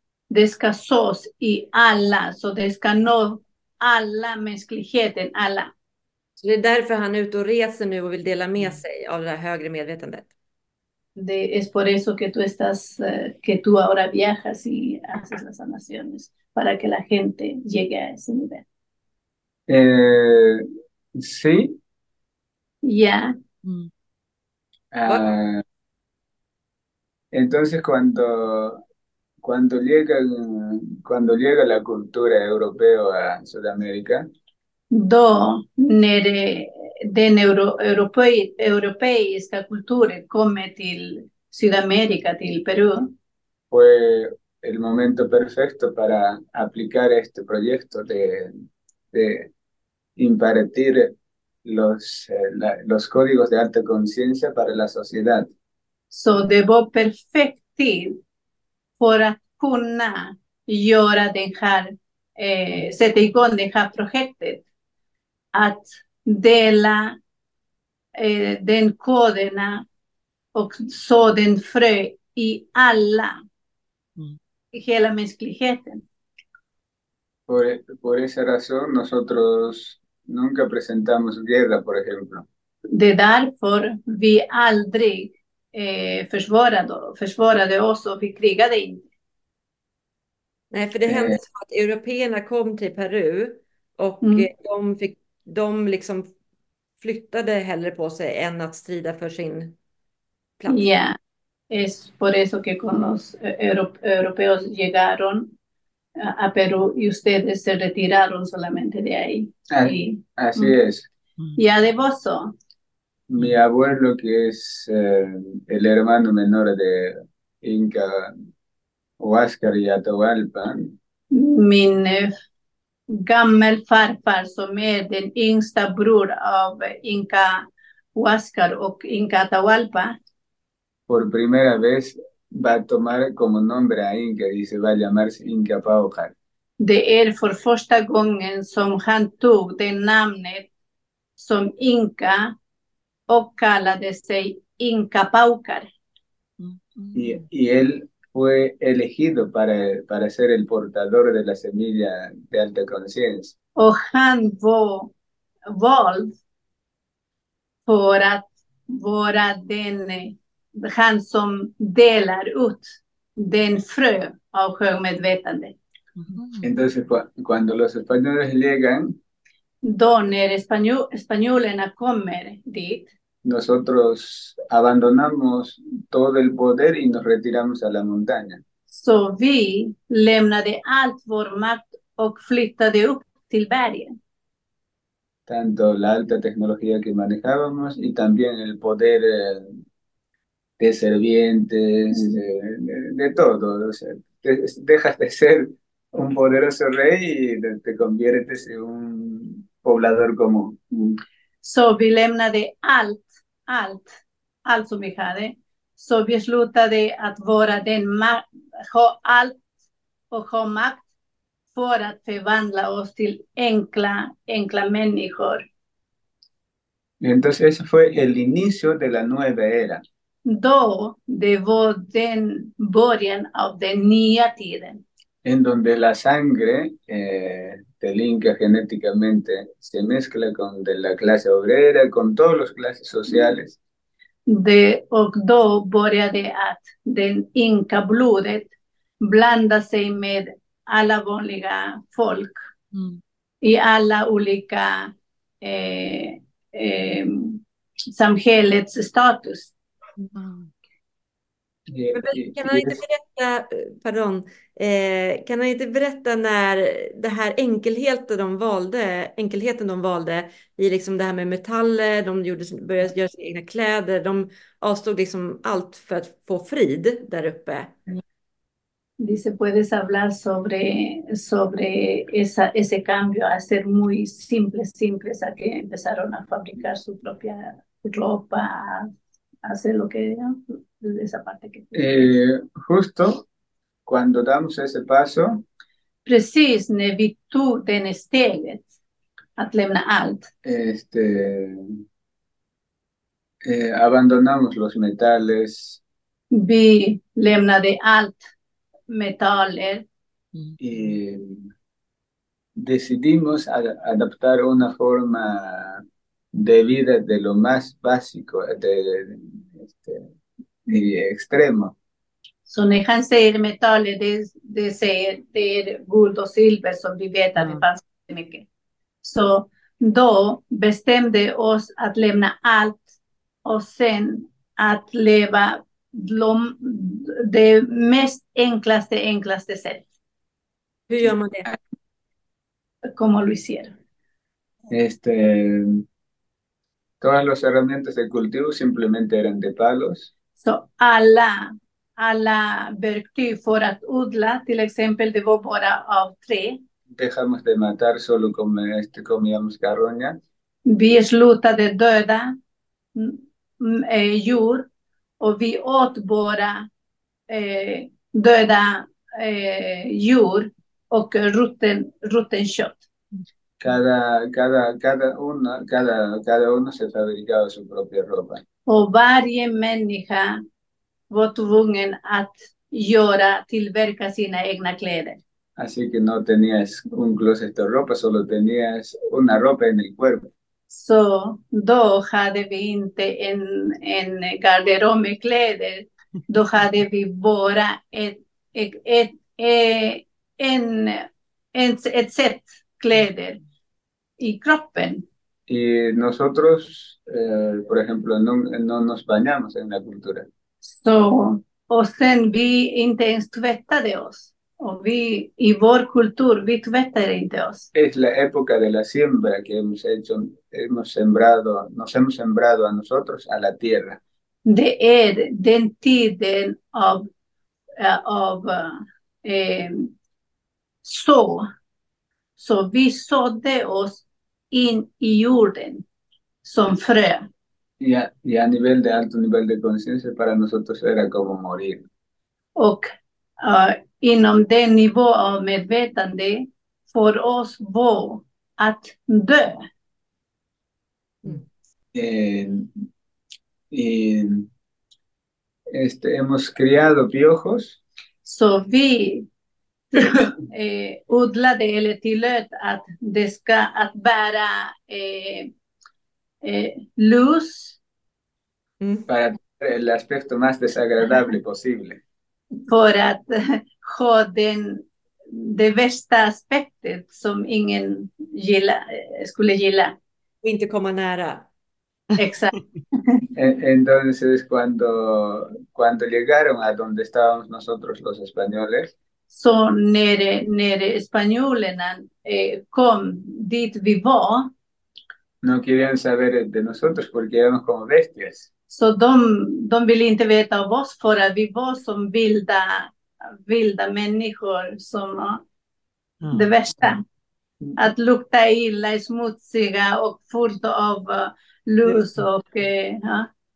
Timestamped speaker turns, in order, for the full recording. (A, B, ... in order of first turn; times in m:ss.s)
0:00.3-0:05.7 A
0:06.4-0:10.3 B
0:11.2-0:18.6 A
0:19.7-0:21.8 C
0:22.8-0:23.4 A
0:23.6-0:23.9 D
0:24.9-0:25.6 C
0:27.3-0:28.8 C
0:29.4-0:34.3 C
0:34.9-0:43.1 A
0:43.7-0:48.5 C
0:49.1-0:49.5 C
0:50.2-0:51.1 C
0:51.6-0:55.5 C
0:56.1-0:58.2 A
0:59.0-1:04.6 A
1:05.5-1:07.2 A
1:08.2-1:09.9 A
1:10.5-1:13.4 A
1:14.7-1:16.0 A
1:17.5-1:22.5 C
1:22.9-1:29.1 A
1:30.7-1:36.3 B
1:31.1-1:31.4 C
1:34.2-1:34.5 A
1:37.0-1:39.7 B
1:40.6-1:40.9 B
1:40.7-1:41.2 A
1:41.7-1:45.5 A
1:46.2-1:50.7 A
1:49.7-1:51.1 C
1:51.6-1:52.5 A
1:53.3-1:58.4 C
1:59.2-2:01.0 C
2:01.3-2:02.4 A
2:03.1-2:10.2 A
2:11.1-2:16.3 C
2:16.8-2:20.7 A
2:21.4-2:22.6 A
2:23.3-2:25.9 A
2:26.6-2:27.3 D
2:27.1-2:33.5 C
2:33.8-2:35.1 A
2:35.7-2:36.4 A
2:37.9-2:45.7 A
2:46.2-2:46.7 D
2:46.6-2:49.2 C
2:49.8-2:53.1 A
2:53.4-2:58.6 C
2:58.9-3:04.2 A
3:05.5-3:09.7 C
3:10.8-3:20.8 C
3:20.9-3:24.1 A
3:24.6-3:29.6 A
3:30.3-3:31.0 A
3:31.7-3:35.7 A
3:37.2-3:40.0 C
3:40.4-3:45.0 A
3:45.4-3:53.8 C
3:54.5-4:02.6 A
4:02.9-4:03.2 D
4:03.6-4:07.6 A
4:08.1-4:09.7 A
4:10.3-4:10.7 D
4:11.9-4:13.0 C
4:12.1-4:27.9 B
4:29.2-4:41.9 A
4:41.9-4:43.4 C
4:44.0-4:45.6 C
4:46.2-4:48.9 A
4:49.6-4:50.5 A
4:50.6-4:52.0 C
4:53.6-4:56.0 C
4:56.5-4:58.5 A
4:59.1-5:00.0 A
5:00.8-5:01.7 C
5:02.8-5:10.2 C
5:10.9-5:11.9 C
5:12.6-5:18.6 A
5:17.6-5:17.8 D
5:19.2-5:23.0 A
5:23.6-5:30.1 A
5:31.1-5:31.7 B
5:33.0-5:33.9 A
5:34.9-5:36.0 C
5:37.2-5:40.3 C
5:40.6-5:46.8 A
5:47.1-5:50.4 C
5:50.9-5:52.6 A
5:53.1-5:54.9 A
5:55.4-5:56.9 A
5:57.5-6:03.0 A
6:03.8-6:08.6 C
6:08.9-6:10.6 A
6:11.3-6:15.4 A
6:15.8-6:20.5 C
6:20.9-6:33.6 A
6:34.4-6:35.2 A
6:35.7-6:40.5 C
6:40.8-6:47.9 A
6:47.9-6:54.2 C
6:54.6-6:57.3 A
6:58.0-7:00.1 A
7:01.0-7:01.7 A
7:02.6-7:06.0 A
7:06.6-7:07.5 A
7:08.0-7:12.1 C
7:12.8-7:13.1 A
7:13.6-7:19.8 A
7:22.1-7:22.9 C
7:23.9-7:24.7 C
7:25.9-7:28.0 C
7:28.4-7:29.5 A
7:30.2-7:35.7 A
7:36.6-7:38.0 A
7:39.0-7:39.2 B
7:39.3-7:42.2 C
7:42.9-7:50.2 A
7:50.6-7:51.7 B
7:52.4-7:52.7 A
7:53.5-7:59.1 C
7:59.5-8:04.7 A
8:05.6-8:08.7 C
8:08.9-8:13.1 A
8:13.6-8:15.6 A
8:16.4-8:16.7 D
8:16.5-8:17.2 A
8:18.0-8:23.5 A